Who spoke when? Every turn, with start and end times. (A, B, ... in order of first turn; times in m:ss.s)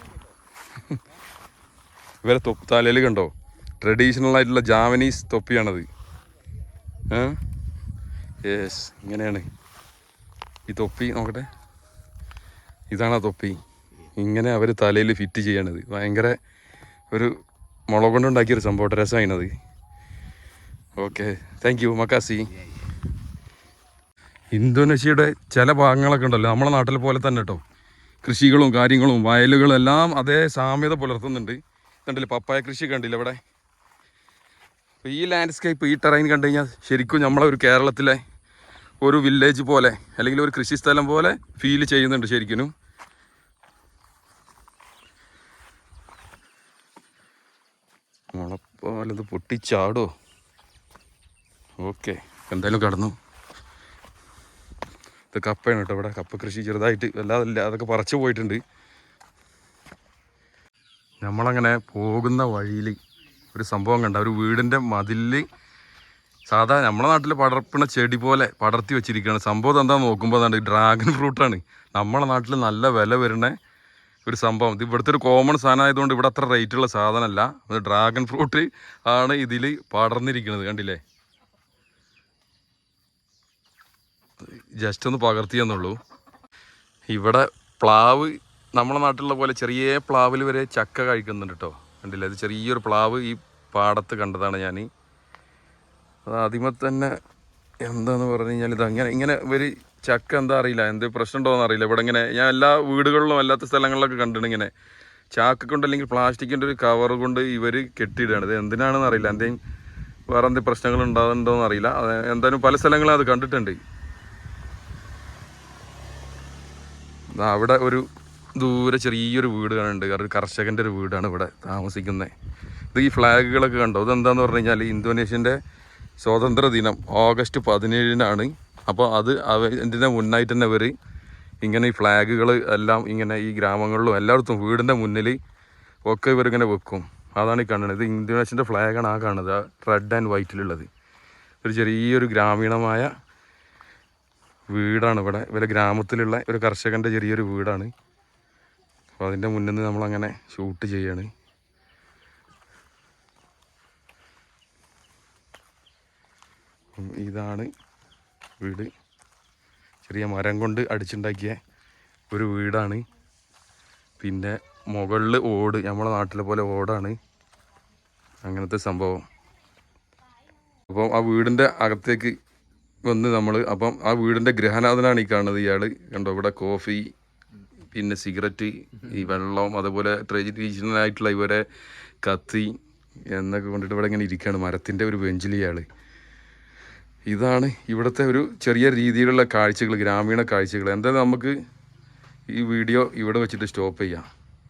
0:02.2-0:05.9 A
0:07.1-0:07.4 A
0:08.4-0:09.5 A
0:10.7-0:11.5 A
0:12.9-0:13.6 A
0:14.1-0:16.4 A
0:17.9-0:19.5 A
0:21.0-0:22.5 A
0:24.5-0:27.6 A
0:28.2-0:33.4 A
0:35.0-0:38.2 A
0:39.0-0:42.7 A
0:48.3-0:50.1 A
0:51.8-0:53.2 A
0:55.3-0:58.6 A
1:01.2-1:03.0 A
1:03.5-1:05.5 A
1:06.5-1:13.6 A
1:14.3-1:21.0 A
1:24.5-1:26.0 A
1:27.1-1:34.9 A
1:36.2-1:37.2 A
1:37.8-1:44.7 A
1:45.3-1:49.6 A
1:50.3-1:53.8 A
1:57.3-2:02.3 A
2:02.9-2:05.6 A
2:06.2-2:10.9 A
2:11.6-2:15.4 A
2:16.1-2:20.9 A
2:21.6-2:23.1 A
2:24.7-2:27.9 A
2:29.2-2:31.3 A
2:37.0-2:37.7 A
2:38.6-2:38.9 A
2:40.0-2:41.6 A
2:42.3-2:43.0 A
2:44.2-2:47.2 A
2:48.4-2:49.2 A
2:50.9-2:52.4 A
2:53.1-2:57.1 A
2:57.9-3:01.7 A
3:02.2-3:02.7 A
3:03.3-3:05.9 A
3:07.3-3:11.6 A
3:12.5-3:14.3 A